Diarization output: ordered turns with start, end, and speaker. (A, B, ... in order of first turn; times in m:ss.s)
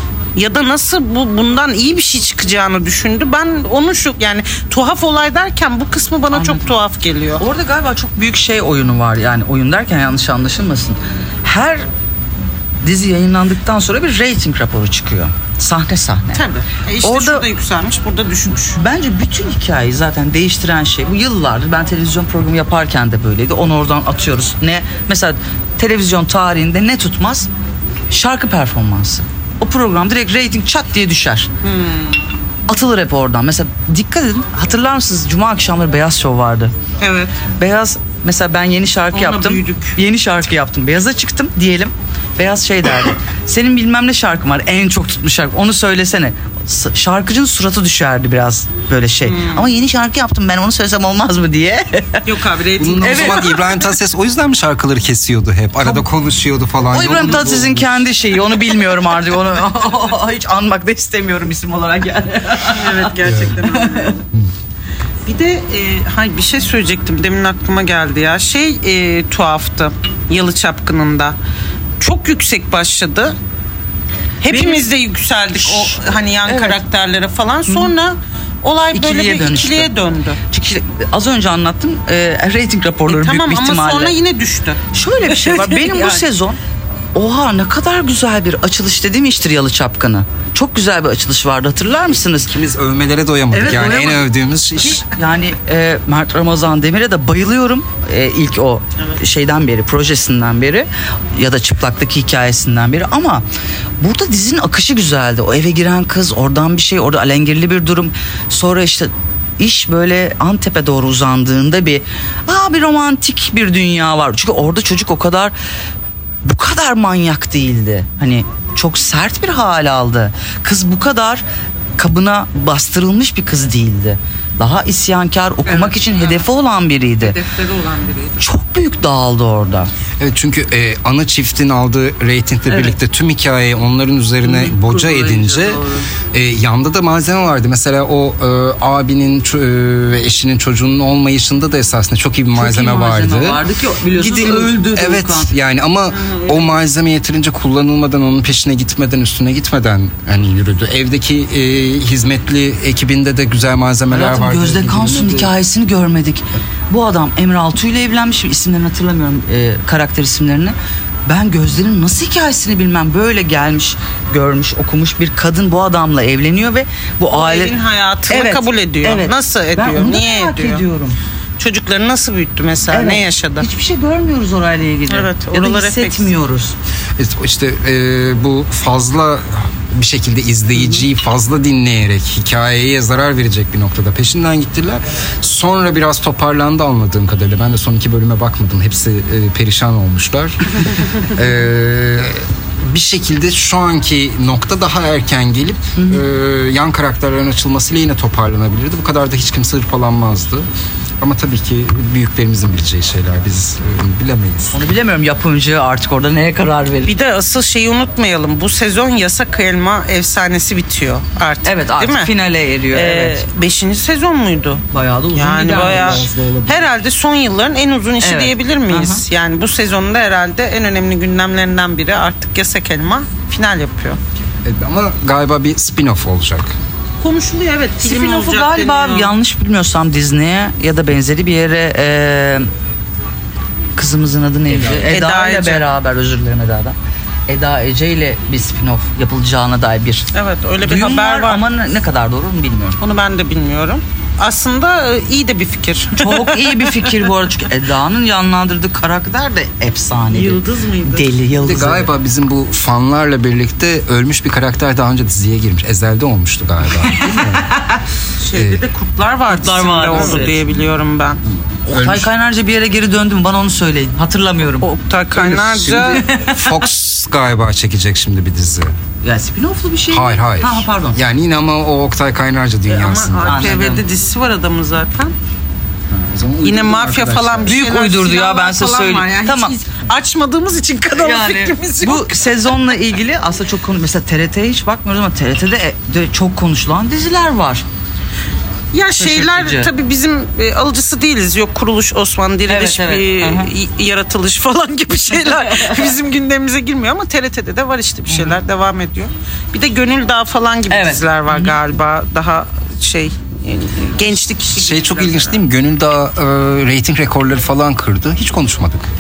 0:00.4-0:07.4 A
0:06.3-0:06.7 B
0:07.4-0:11.8 B
0:12.8-0:16.4 B
0:16.3-0:18.8 A
0:17.0-0:17.5 B
0:18.5-0:27.5 B
0:28.1-0:31.5 B
0:31.6-0:32.2 A
0:32.7-0:36.8 B
0:37.0-0:37.4 A
0:37.6-0:52.3 B
0:39.1-0:40.0 A
0:49.2-0:49.7 A
0:52.2-0:53.7 A
0:52.8-0:58.0 C
0:53.0-0:53.6 B
0:56.9-1:04.1 B
1:02.7-1:04.2 A
1:03.2-1:03.5 C
1:05.3-1:11.4 A
1:12.0-1:13.4 A
1:14.4-1:20.4 A
1:14.5-1:14.9 B
1:15.5-1:16.8 B
1:18.9-1:19.9 B
1:20.5-1:24.2 B
1:23.1-1:26.2 A
1:24.9-1:26.6 B
1:27.2-1:32.5 B
1:32.5-1:35.0 C
1:33.5-1:43.4 B
1:44.0-1:55.5 B
1:56.4-2:01.4 B
2:02.0-2:07.4 B
2:05.6-2:06.5 A
2:07.2-2:08.4 A
2:08.4-2:09.9 B
2:10.2-2:15.8 C
2:14.4-2:16.1 B
2:16.3-2:35.5 C
2:22.5-2:25.5 B
2:26.1-2:26.8 A
2:34.1-2:47.7 B
2:47.3-2:50.8 A
2:48.3-2:51.2 B
2:51.6-2:53.6 A
2:52.9-2:56.8 B
2:55.1-2:56.3 A
2:57.2-3:20.7 C
3:16.0-3:16.2 B
3:21.2-3:24.8 C
3:24.7-3:27.2 B
3:27.1-3:32.3 A
3:31.6-3:33.4 B
3:32.9-3:44.2 A
3:34.9-3:36.3 B
3:35.7-3:36.9 C
3:38.2-3:39.2 B
3:44.6-3:46.7 C
3:47.2-3:49.3 A
3:48.0-3:52.7 B
3:54.0-3:57.0 B
3:54.7-3:55.1 C
3:55.1-3:55.9 A
3:57.5-4:00.3 B
4:00.3-4:01.6 A
4:00.8-4:03.0 B
4:03.0-4:07.1 A
4:06.2-4:12.1 B
4:10.3-4:11.4 A
4:11.6-4:17.6 C
4:16.9-4:18.0 B
4:18.4-4:21.4 A
4:18.5-4:18.8 C
4:19.5-4:20.6 B
4:21.9-4:24.9 B
4:21.9-4:22.3 C
4:24.8-4:26.2 A
4:25.3-4:28.9 C
4:26.0-4:26.7 B
4:29.2-4:31.2 B
4:30.1-4:33.8 C
4:32.9-4:35.4 A
4:33.4-4:34.0 B
4:36.1-4:37.8 C
4:36.6-4:42.8 A
4:37.6-4:39.8 B
4:41.1-4:47.8 B
4:48.9-5:05.6 A
4:49.2-4:49.9 B
4:52.7-4:53.7 B
4:55.5-4:56.0 B
4:58.3-4:58.6 B
5:00.9-5:01.8 B
5:04.7-5:09.1 C